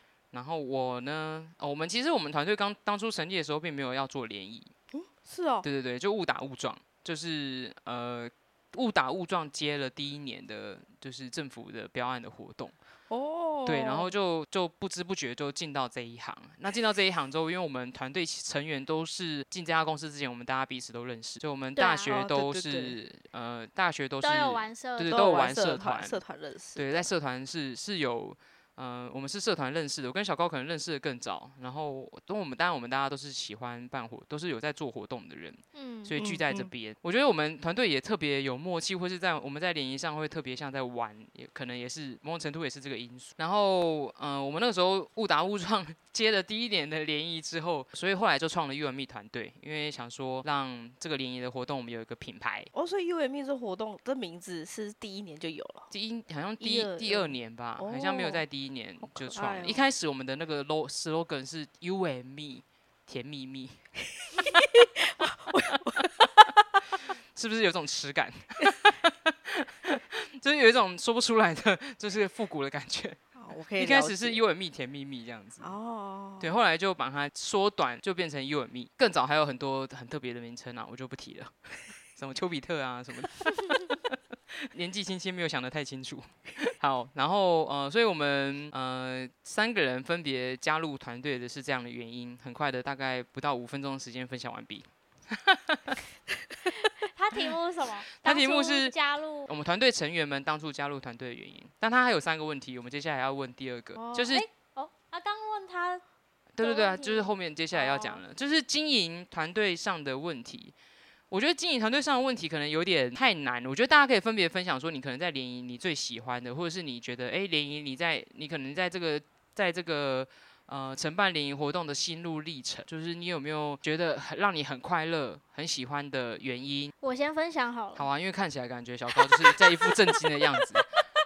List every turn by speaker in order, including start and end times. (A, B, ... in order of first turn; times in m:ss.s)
0:00.3-0:04.7 A
0:04.9-0:05.7 B
0:05.6-0:12.7 A
0:13.1-0:14.1 B
0:13.6-0:26.2 A
0:21.8-0:22.2 C
0:22.0-0:23.0 B
0:24.2-0:25.5 C
0:25.1-0:27.0 B
0:26.8-0:52.7 A
0:35.8-0:36.1 C
0:36.2-0:36.7 B
0:52.7-0:55.9 B
0:55.9-1:03.8 A
0:56.6-0:58.4 B
0:59.0-0:59.8 B
1:04.3-1:06.6 B
1:04.4-1:04.7 A
1:05.7-1:06.3 A
1:07.4-1:13.2 A
1:13.4-1:14.4 B
1:13.8-1:15.7 A
1:15.6-1:16.5 B
1:16.4-1:21.5 A
1:22.1-1:24.2 A
1:24.7-1:36.0 A
1:36.7-1:39.5 C
1:38.2-1:39.0 A
1:39.5-1:44.5 A
1:44.0-1:46.0 C
1:46.6-1:50.7 A
1:46.6-1:48.2 C
1:51.3-2:06.9 A
2:07.0-2:08.1 C
2:08.0-2:10.9 A